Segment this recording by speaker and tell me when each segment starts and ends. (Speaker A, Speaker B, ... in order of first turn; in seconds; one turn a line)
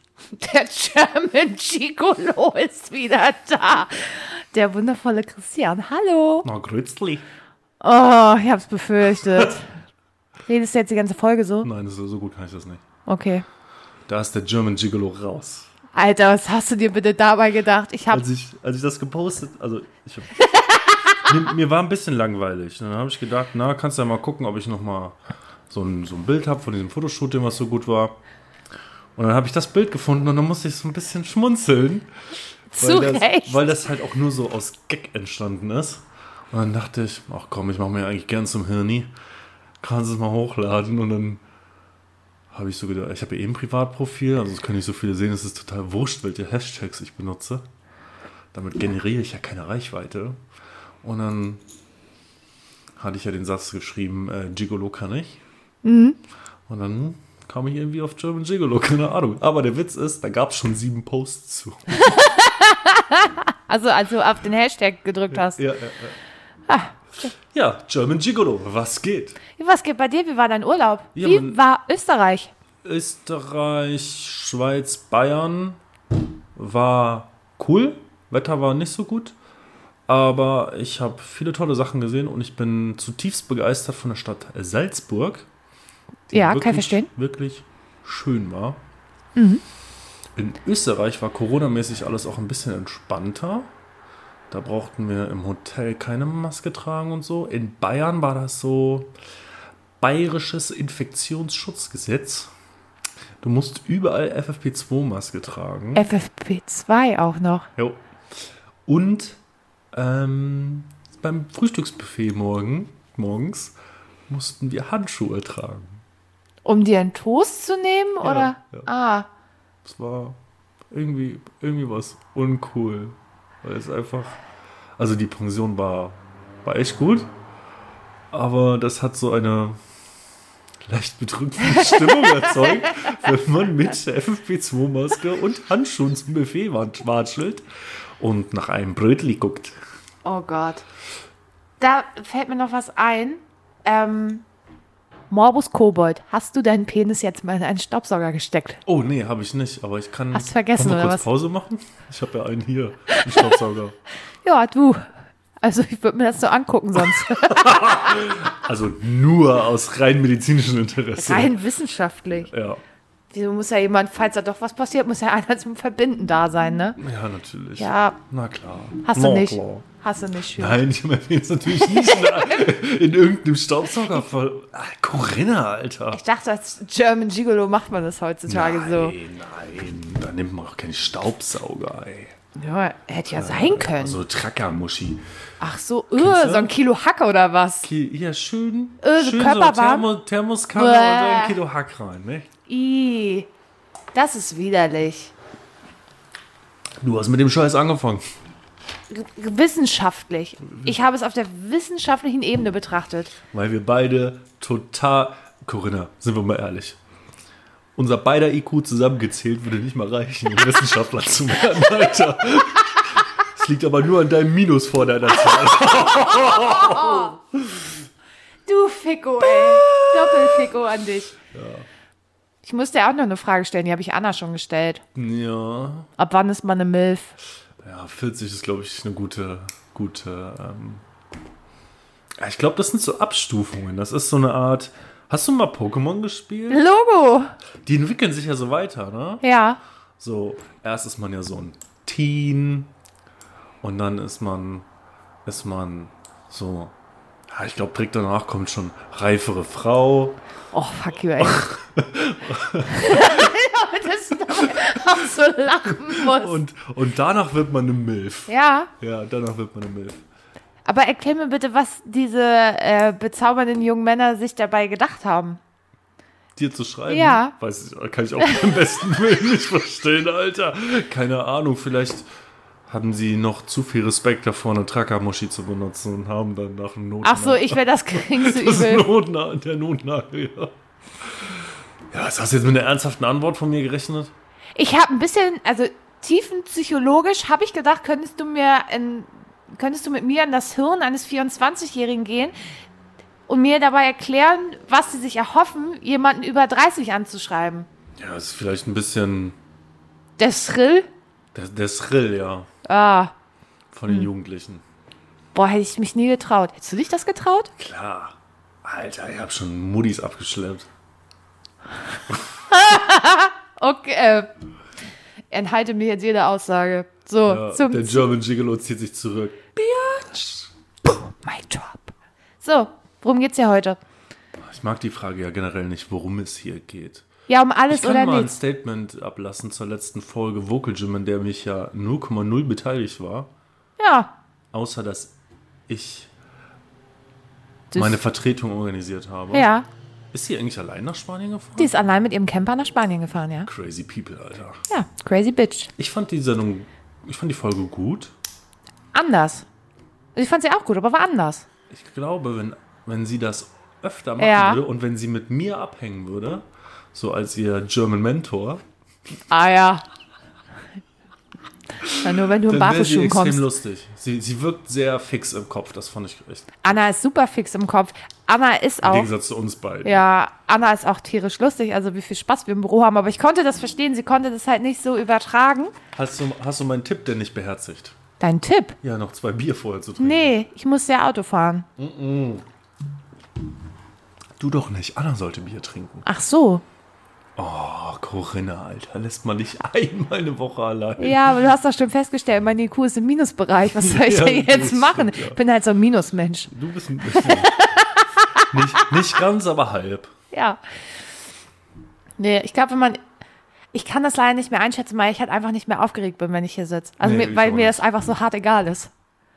Speaker A: 0.4-6.5
Speaker B: 6.4-7.2
Speaker A: 7.8-9.7
Speaker A: 10.5-11.7
Speaker B: 11.6-12.8
Speaker A: 13.1-13.4
Speaker B: 14.1-15.7
Speaker A: 15.9-18.2
Speaker B: 18.1-20.3
Speaker A: 20.7-21.2
Speaker B: 21.2-25.2
Speaker B: 25.7-28.2
Speaker B: 29.1-32.1
Speaker A: 32.7-33.6
Speaker B: 32.8-39.1
Speaker B: 39.8-41.4
Speaker B: 42.5-47.6
Speaker B: 48.5-50.4
Speaker B: 51.0-51.6
Speaker B: 53.0-55.4
Speaker A: 55.8-56.2
Speaker B: 56.7-61.9
Speaker A: 61.9-65.6
Speaker B: 65.3-66.2
Speaker A: 66.7-67.3
Speaker B: 67.3-69.4
Speaker A: 69.5-72.5
Speaker B: 71.1-71.6
Speaker B: 72.8-75.8
Speaker B: 76.5-79.3
Speaker B: 80.1-85.5
Speaker B: 86.3-88.8
Speaker A: 86.3-87.1
Speaker A: 89.3-89.6
Speaker B: 90.3-93.7
Speaker B: 94.5-99.1
Speaker B: 100.0-102.5
Speaker B: 103.4-106.1
Speaker A: 105.9-107.7
Speaker B: 107.8-108.0
Speaker B: 108.8-109.4
Speaker B: 109.9-113.8
Speaker B: 114.3-116.0
Speaker A: 116.6-119.3
Speaker B: 118.2-118.9
Speaker B: 119.8-120.4
Speaker B: 120.9-124.4
Speaker B: 125.0-127.3
Speaker B: 128.3-129.8
Speaker B: 130.8-137.6
Speaker A: 131.6-132.9
Speaker B: 138.2-139.8
Speaker A: 140.2-140.8
Speaker A: 141.8-144.4
Speaker A: 145.3-148.8
Speaker B: 148.8-154.0
Speaker A: 150.3-151.3
Speaker A: 153.1-153.6
Speaker A: 154.4-155.0
Speaker A: 155.6-158.3
Speaker B: 157.0-161.6
Speaker A: 161.2-162.5
Speaker B: 162.5-162.8
Speaker A: 163.3-167.0
Speaker B: 167.0-169.8
Speaker A: 167.8-168.2
Speaker A: 169.0-170.8
Speaker B: 170.6-176.2
Speaker A: 171.9-172.7
Speaker A: 176.1-179.1
Speaker B: 178.5-182.3
Speaker A: 182.5-184.2
Speaker B: 183.3-185.2
Speaker A: 185.6-187.9
Speaker B: 186.2-186.7
Speaker B: 187.8-192.5
Speaker A: 189.0-190.0
Speaker A: 190.7-191.6
Speaker A: 192.7-193.5
Speaker A: 194.1-195.3
Speaker B: 197.0-198.2
Speaker A: 199.1-203.3
Speaker B: 203.5-207.0
Speaker B: 207.9-218.1
Speaker A: 216.2-217.3
Speaker A: 218.7-221.3
Speaker B: 219.6-220.7
Speaker B: 221.5-221.8
Speaker A: 222.6-225.0
Speaker B: 225.2-226.1
Speaker A: 226.2-227.3
Speaker B: 227.8-231.0
Speaker B: 232.4-236.8
Speaker A: 236.7-237.5
Speaker B: 237.8-239.4
Speaker A: 239.4-239.8
Speaker B: 240.2-242.9
Speaker B: 243.8-244.8
Speaker B: 245.4-246.9
Speaker B: 247.5-250.4
Speaker A: 250.7-251.7
Speaker B: 251.4-253.5
Speaker A: 252.8-256.6
Speaker B: 254.6-255.0
Speaker B: 256.0-260.2
Speaker A: 258.5-258.9
Speaker A: 260.8-265.6
Speaker B: 266.6-272.2
Speaker A: 267.1-267.5
Speaker B: 272.9-284.3
Speaker A: 277.2-279.0
Speaker A: 284.8-292.5
Speaker A: 293.5-297.9
Speaker B: 298.2-299.6
Speaker A: 300.4-301.1
Speaker B: 301.5-302.7
Speaker A: 302.8-303.3
Speaker B: 303.9-304.8
Speaker A: 305.5-307.7
Speaker B: 307.8-310.9
Speaker A: 312.7-314.5
Speaker A: 315.5-318.2
Speaker B: 317.4-319.7
Speaker A: 319.8-324.0
Speaker B: 324.6-327.2
Speaker A: 327.5-328.6
Speaker B: 327.9-333.5
Speaker A: 334.0-334.3
Speaker B: 334.7-335.4
Speaker B: 335.9-336.3
Speaker A: 337.9-338.2
Speaker B: 337.9-339.7
Speaker A: 339.5-339.9
Speaker B: 340.3-341.9
Speaker A: 341.8-343.7
Speaker B: 343.6-344.8
Speaker A: 344.9-345.9
Speaker B: 346.0-348.3
Speaker A: 349.1-349.6
Speaker A: 350.3-351.6
Speaker B: 351.9-358.8
Speaker A: 354.4-354.8
Speaker A: 359.5-360.0
Speaker B: 362.0-367.0
Speaker A: 362.2-363.7
Speaker A: 366.8-369.3
Speaker B: 369.0-370.2
Speaker A: 370.0-375.9
Speaker B: 376.1-378.1
Speaker A: 378.4-379.0
Speaker B: 379.0-380.5
Speaker A: 380.2-381.9
Speaker B: 382.0-382.6
Speaker B: 384.6-386.3
Speaker A: 386.2-386.8
Speaker B: 387.6-391.6
Speaker A: 391.2-396.7
Speaker B: 393.9-395.6
Speaker B: 396.7-397.9
Speaker A: 397.2-399.1
Speaker B: 398.6-400.3
Speaker A: 400.5-400.8
Speaker A: 402.4-403.2
Speaker A: 403.9-409.1
Speaker B: 407.2-408.0